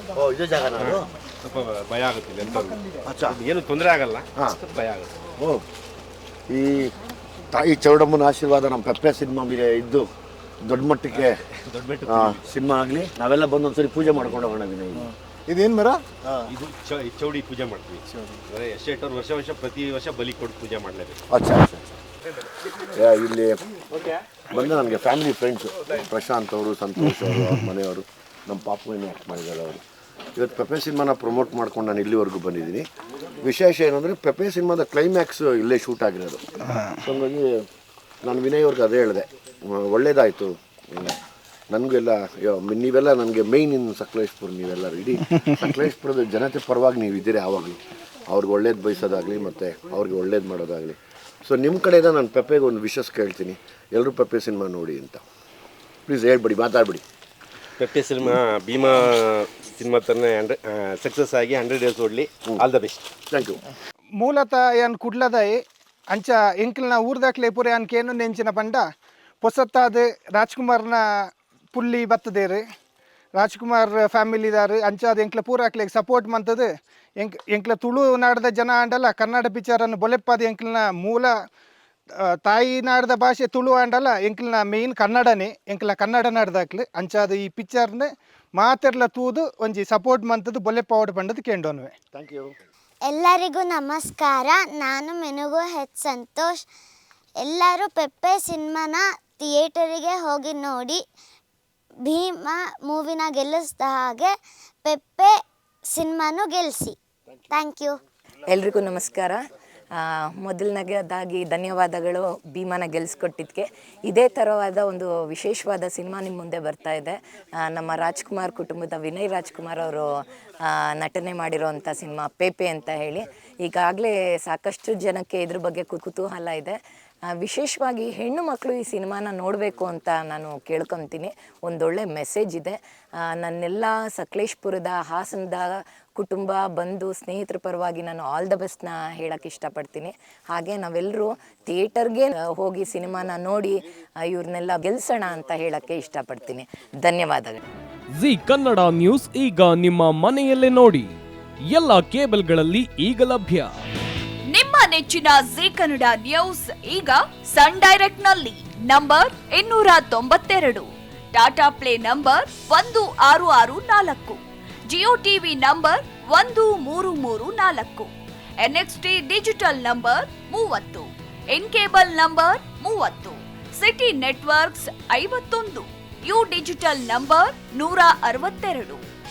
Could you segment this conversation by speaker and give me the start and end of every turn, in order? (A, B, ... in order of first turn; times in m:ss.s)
0:00.1-0:01.1 A
0:00.8-0:05.1 B
0:03.0-0:03.4 A
0:05.4-0:05.6 A
0:06.5-0:06.9 A
0:07.5-0:10.0 A
0:10.6-0:11.3 A
0:11.1-0:12.5 B
0:12.1-0:15.1 A
0:15.5-0:16.2 C
0:16.5-0:21.2 B
0:21.3-0:21.8 A
0:22.9-0:23.6 A
0:24.5-0:29.8 A
0:30.3-0:32.9 A
0:33.4-0:36.4 A
0:37.0-0:37.6 A
0:38.2-0:41.2 A
0:41.7-0:55.2 A
0:56.1-0:57.0 A
0:57.8-1:03.1 B
1:03.3-1:03.6 A
1:04.2-1:05.6 C
1:06.1-1:08.8 C
1:09.4-1:12.6 C
1:13.3-1:21.3 C
1:22.2-1:31.9 C
1:32.1-1:32.5 A
1:33.0-1:36.6 D
1:37.4-1:41.0 D
1:42.0-1:44.3 D
1:44.8-1:45.3 D
1:45.9-1:47.0 D
1:47.5-1:48.0 D
1:48.4-1:49.4 E
1:50.0-2:00.1 E
2:00.7-2:06.8 E
2:07.3-2:27.6 E
2:28.1-2:31.1 F
2:31.7-2:33.7 F
2:34.5-2:48.1 G
2:48.6-2:59.0 G